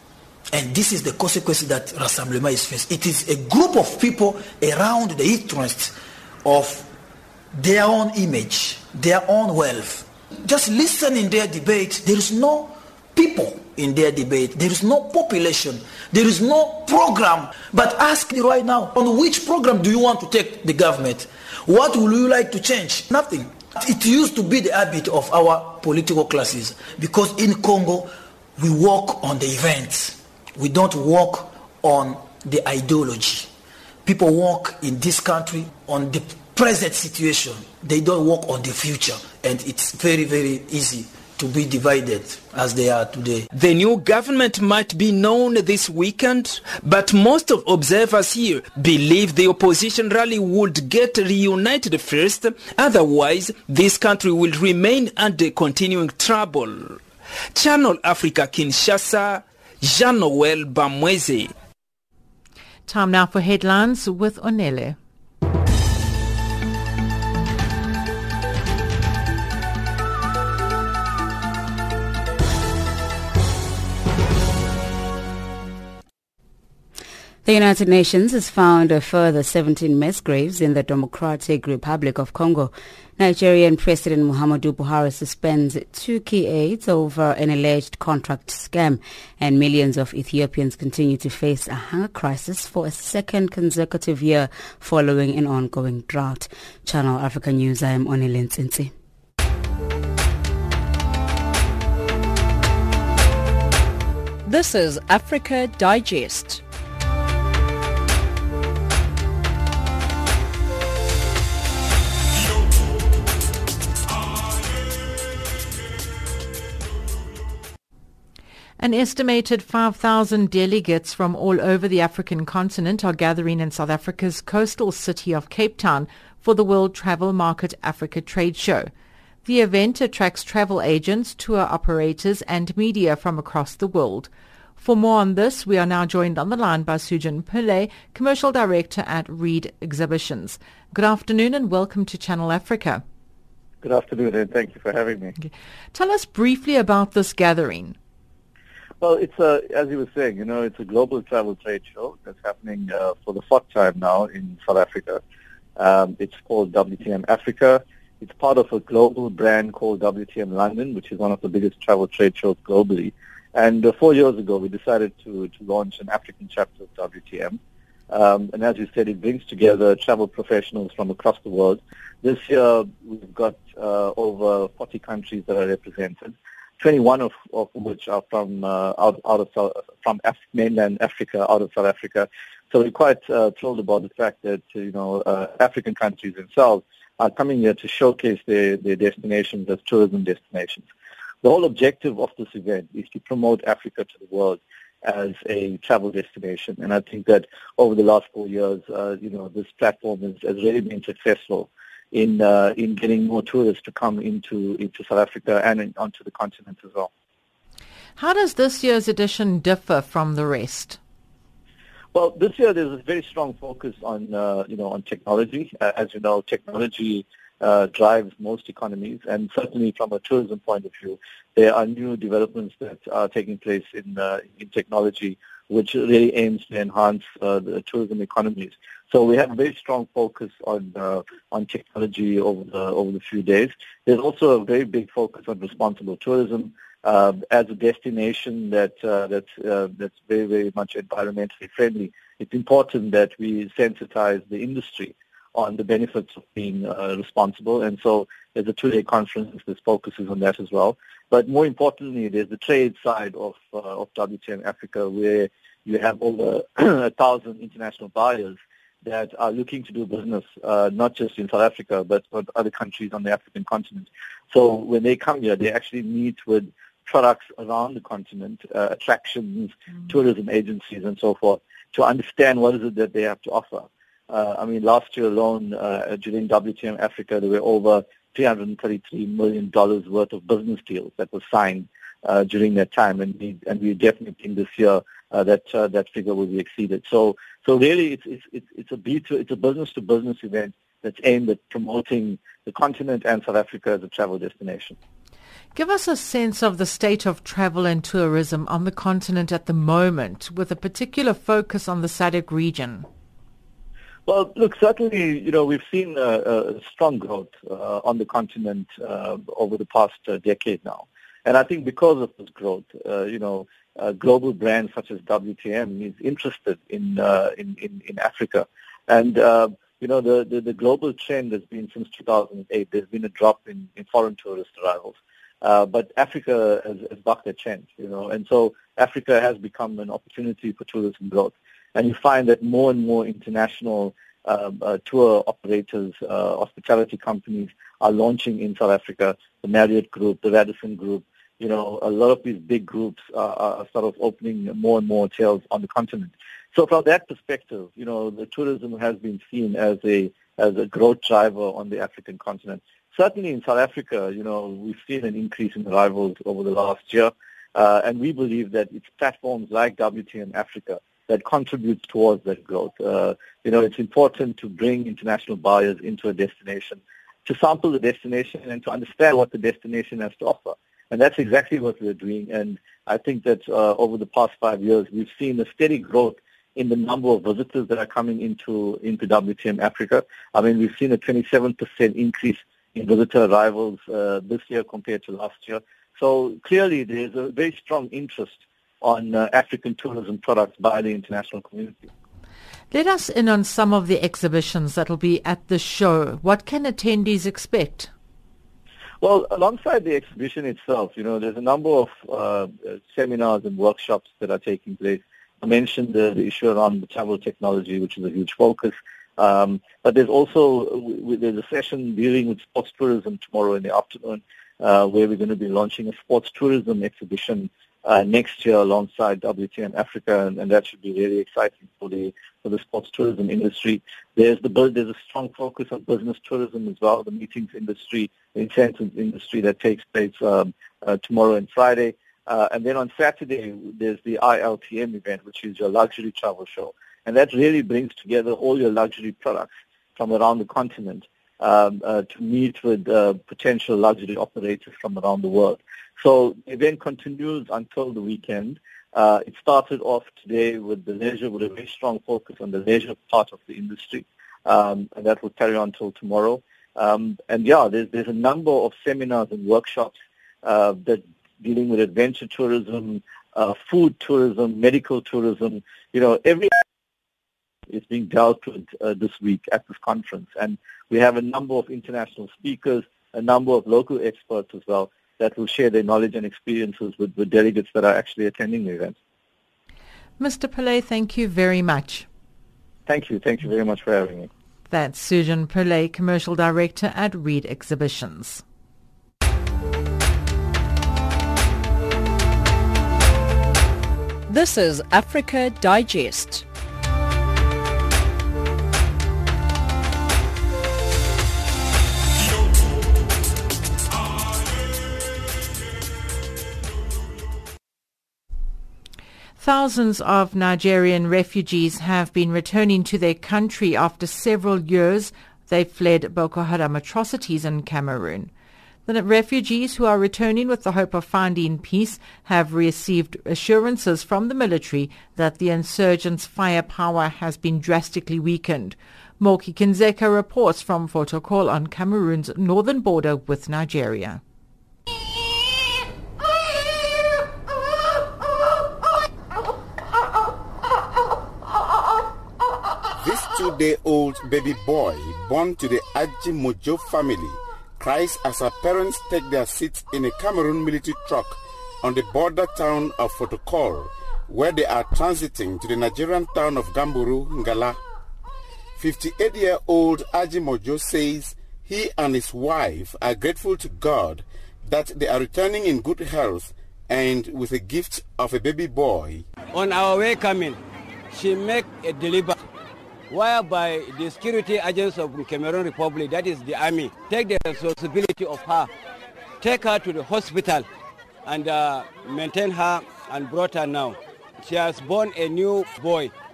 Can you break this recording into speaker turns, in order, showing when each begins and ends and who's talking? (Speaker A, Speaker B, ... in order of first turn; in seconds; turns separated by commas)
Speaker A: 0.5-6.9, Speaker A: 7.5-33.5, Speaker A: 34.0-43.5, Speaker B: 43.5-57.0, Speaker B: 57.5-61.5, Speaker C: 62.9-65.0, Speaker D: 77.5-98.9, Speaker E: 104.5-106.6, Speaker C: 118.8-128.9, Speaker C: 129.4-143.0, Speaker F: 143.8-145.3, Speaker C: 145.4-148.0, Speaker F: 149.0-155.2, Speaker F: 155.8-167.6, Speaker F: 168.1-190.9, Speaker F: 191.4-207.1, Speaker C: 208.2-211.0, Speaker F: 212.2-295.0, Speaker C: 295.8-303.1, Speaker F: 304.3-392.1, Speaker C: 392.9-398.1, Speaker F: 399.2-466.8, Speaker F: 467.9-479.2, Speaker C: 480.4-482.3, Speaker F: 483.1-484.5, Speaker C: 484.9-488.6, Speaker E: 494.5-496.6, Speaker C: 509.6-518.5, Speaker C: 519.1-534.4, Speaker G: 543.2-558.0, Speaker G: 559.0-569.5, Speaker H: 569.7-570.8, Speaker H: 571.3-572.6, Speaker H: 573.3-578.9, Speaker H: 579.6-580.9, Speaker H: 581.5-586.3